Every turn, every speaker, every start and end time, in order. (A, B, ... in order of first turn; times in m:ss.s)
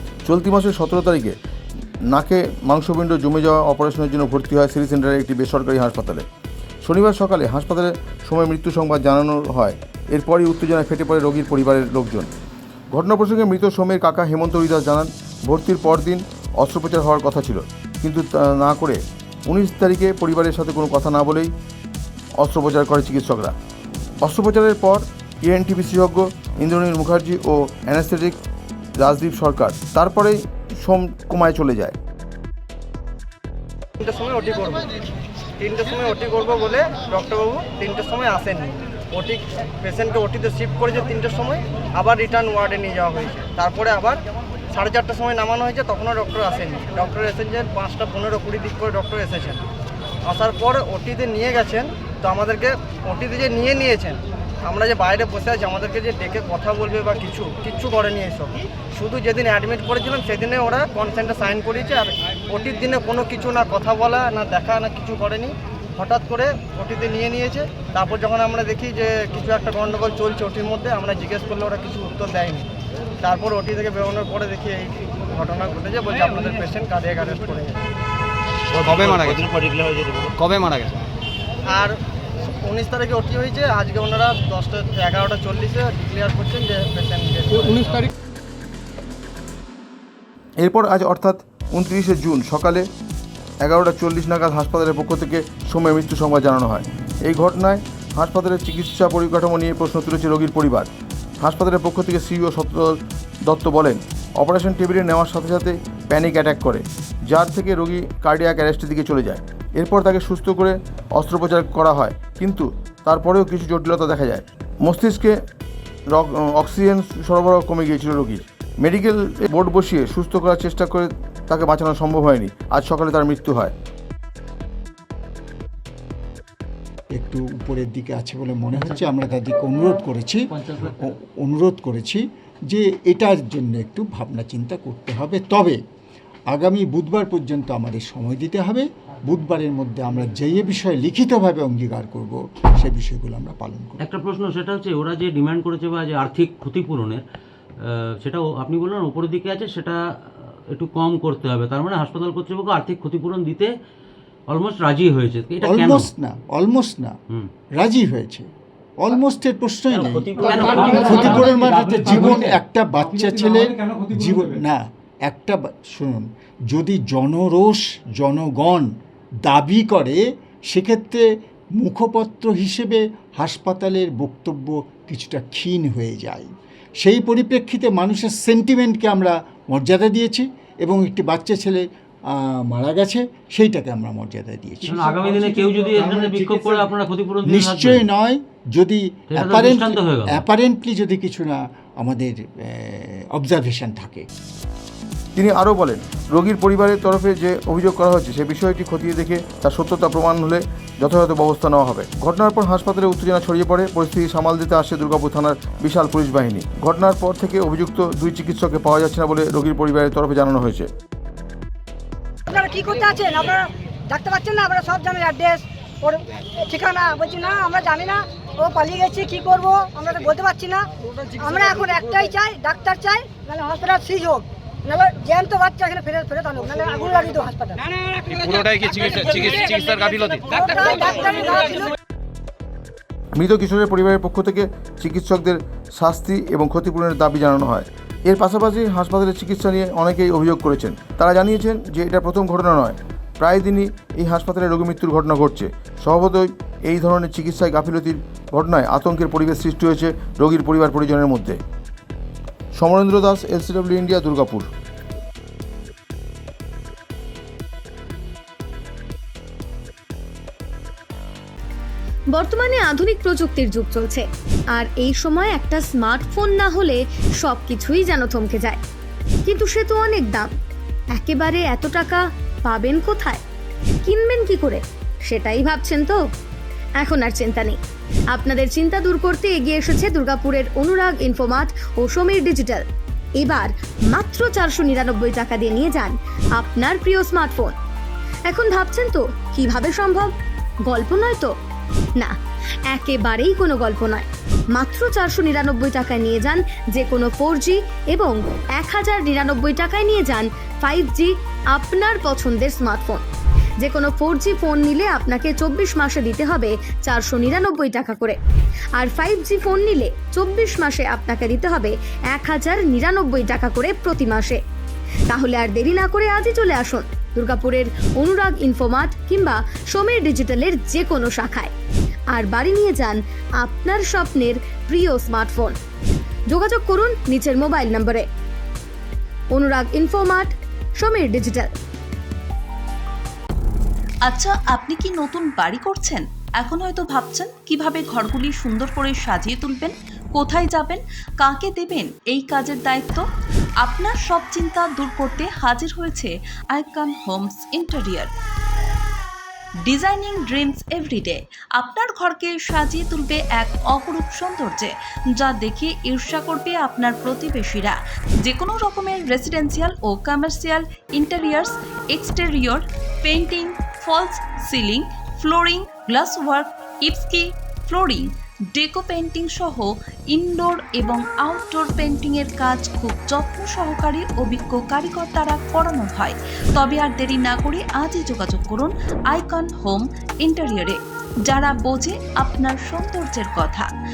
0:00.2-0:01.4 A
0:02.1-0:06.2 A
0:06.8-0:12.3 A
0:12.9-0:21.5 A
0:22.4-0:23.5 A
0:24.2-0:28.4 A
0:29.0-0:32.0 A
0:34.0-0:34.9 B
0:35.6-0:49.6 B
0:50.3-1:12.7 B
1:13.2-1:17.8 B
1:18.7-1:21.0 C
1:18.8-1:19.4 B
1:21.7-1:28.0 B
1:30.6-1:32.8 A
1:33.6-1:40.9 A
1:41.4-1:55.4 A
1:56.1-2:03.7 A
2:07.1-2:15.8 D
2:16.5-2:24.0 D
2:24.0-2:27.2 E
2:28.2-2:30.0 E
2:30.7-2:33.7 E
2:34.5-2:36.1 E
2:35.6-2:37.2 D
2:37.8-2:38.5 D
2:39.0-2:48.9 D
2:40.3-2:41.7 E
2:49.4-2:51.2 D
2:51.8-2:56.5 D
2:57.0-3:05.0 D
3:04.8-3:08.0 E
3:07.4-3:14.3 D
3:09.3-3:10.4 E
3:15.4-3:30.9 A
3:32.5-3:47.8 F
3:48.3-3:50.4 C
3:48.9-3:51.9 F
3:53.3-4:11.6 A
4:12.7-4:14.7 A
4:22.3-4:28.8 G
4:29.4-4:30.5 G
4:31.1-4:33.4 G
4:34.0-4:36.2 G
4:37.0-4:37.8 G
4:38.3-4:42.8 G
4:43.4-4:47.7 G
4:48.5-4:50.3 G
4:50.9-4:51.5 G
4:52.9-5:03.2 G
5:03.8-5:08.4 G
5:09.0-5:14.6 G
5:15.3-5:21.7 G
5:22.3-5:25.7 G
5:26.5-5:28.2 G
5:29.5-5:31.7 G
5:34.3-5:43.2 H
5:43.8-5:48.3 H
5:49.8-6:23.9 H